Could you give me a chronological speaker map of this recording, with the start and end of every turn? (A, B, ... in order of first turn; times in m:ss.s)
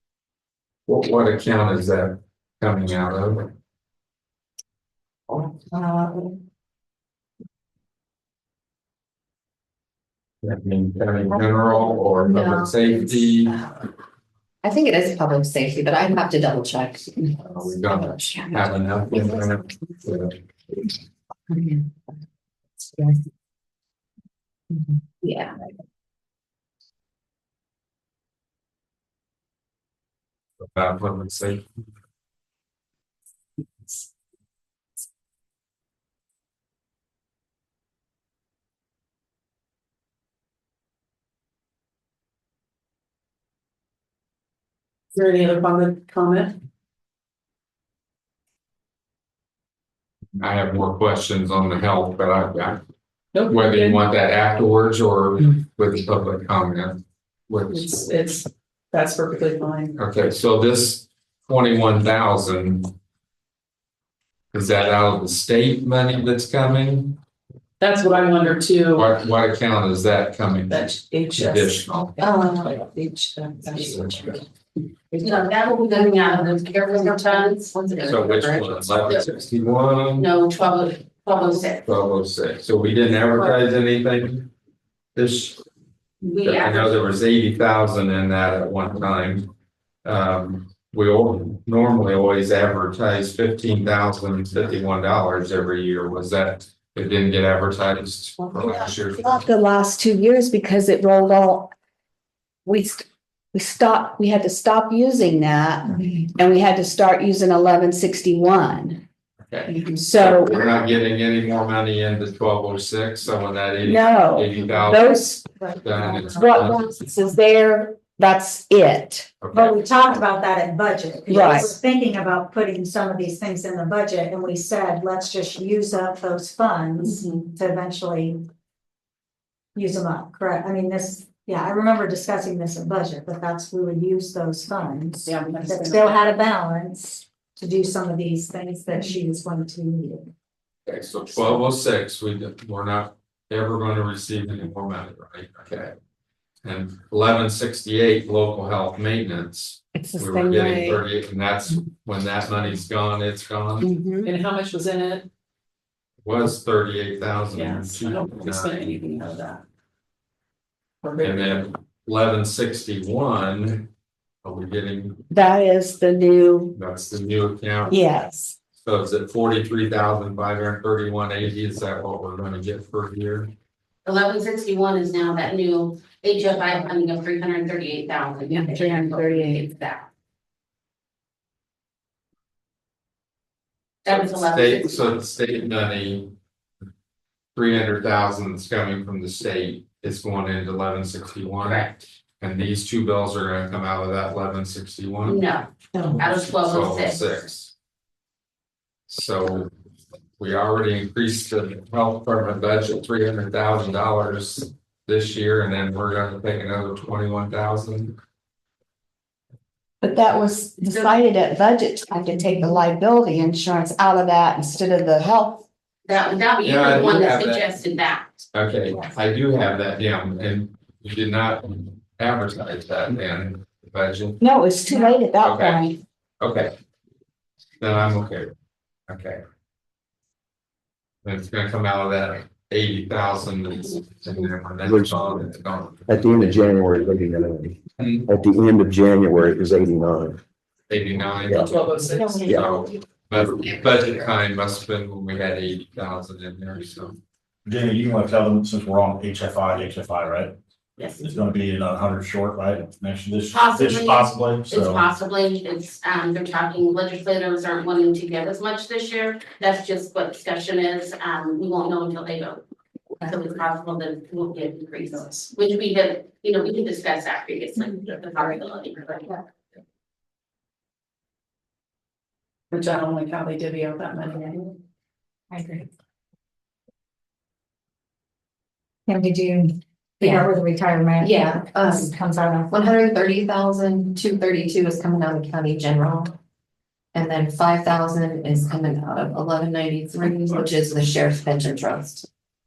0:00.9-0:03.5 A
0:05.3-0:06.4 B
0:10.4-0:13.6 A
0:12.2-0:13.8 B
0:14.6-0:18.5 B
0:17.4-0:20.3 A
0:21.5-0:22.0 B
0:22.9-0:23.2 B
0:24.7-0:25.6 B
0:30.6-0:31.7 A
0:45.2-0:46.6 C
0:50.4-0:52.8 A
0:53.3-0:54.0 C
0:53.4-0:58.1 A
0:57.7-1:00.0 C
1:00.0-1:02.9 A
1:04.5-1:07.2 A
1:07.8-1:09.1 C
1:09.0-1:12.1 A
1:10.7-1:14.4 C
1:12.2-1:12.8 B
1:13.7-1:14.3 A
1:15.1-1:15.5 C
1:15.2-1:18.0 D
1:16.2-1:19.0 B
1:18.0-1:20.3 A
1:20.2-1:21.8 D
1:21.8-1:24.5 A
1:25.1-1:25.6 A
1:26.2-1:27.0 D
1:26.4-1:29.5 A
1:30.0-1:39.4 A
1:38.6-1:41.7 E
1:42.7-1:49.0 E
1:49.4-1:55.2 A
1:50.0-1:50.6 E
1:53.8-1:55.5 E
1:55.6-1:56.2 F
1:55.8-1:56.9 A
1:56.3-1:59.3 E
1:59.4-1:59.8 A
1:59.5-2:08.5 F
2:01.3-2:01.8 E
2:09.8-2:20.3 F
2:15.2-2:16.3 C
2:20.8-2:25.9 A
2:26.6-2:33.9 A
2:30.0-2:31.0 E
2:33.8-2:34.3 E
2:34.2-2:35.3 C
2:36.2-2:38.9 A
2:37.5-2:39.6 C
2:41.0-2:41.7 C
2:41.2-2:43.9 A
2:44.4-2:45.2 A
2:45.3-2:46.8 E
2:46.8-2:48.0 A
2:47.9-2:48.6 E
2:48.8-2:53.5 A
2:54.0-3:00.1 D
2:58.5-2:59.7 E
3:04.0-3:05.2 D
3:04.1-3:06.3 A
3:07.5-3:11.9 A
3:11.6-3:12.0 D
3:12.4-3:15.5 A
3:15.2-3:17.4 D
3:15.9-3:16.2 E
3:16.1-3:17.7 A
3:19.1-3:19.7 A
3:20.4-3:28.2 A
3:30.0-3:35.6 E
3:36.1-3:38.4 D
3:36.6-3:37.7 A
3:38.5-3:44.4 A
3:44.4-3:46.0 E
3:45.4-3:45.9 A
3:46.4-3:46.7 A
3:47.8-3:48.5 A
3:49.1-3:49.4 A
3:51.2-3:57.2 A
3:54.8-3:55.4 G
3:56.1-4:00.4 G
3:58.0-3:58.4 A
4:00.9-4:01.8 A
4:01.5-4:02.5 C
4:02.0-4:03.0 B
4:02.5-4:07.2 A
4:03.5-4:04.4 B
4:07.6-4:10.6 H
4:11.0-4:11.3 D
4:11.2-4:15.1 H
4:13.5-4:22.6 D
4:23.2-4:29.3 D
4:25.0-4:25.5 C
4:32.7-4:34.7 C
4:35.5-4:35.9 F
4:39.0-4:42.7 F
4:40.2-4:40.5 B
4:41.2-4:42.1 B
4:42.7-4:46.3 B
4:47.1-4:52.3 B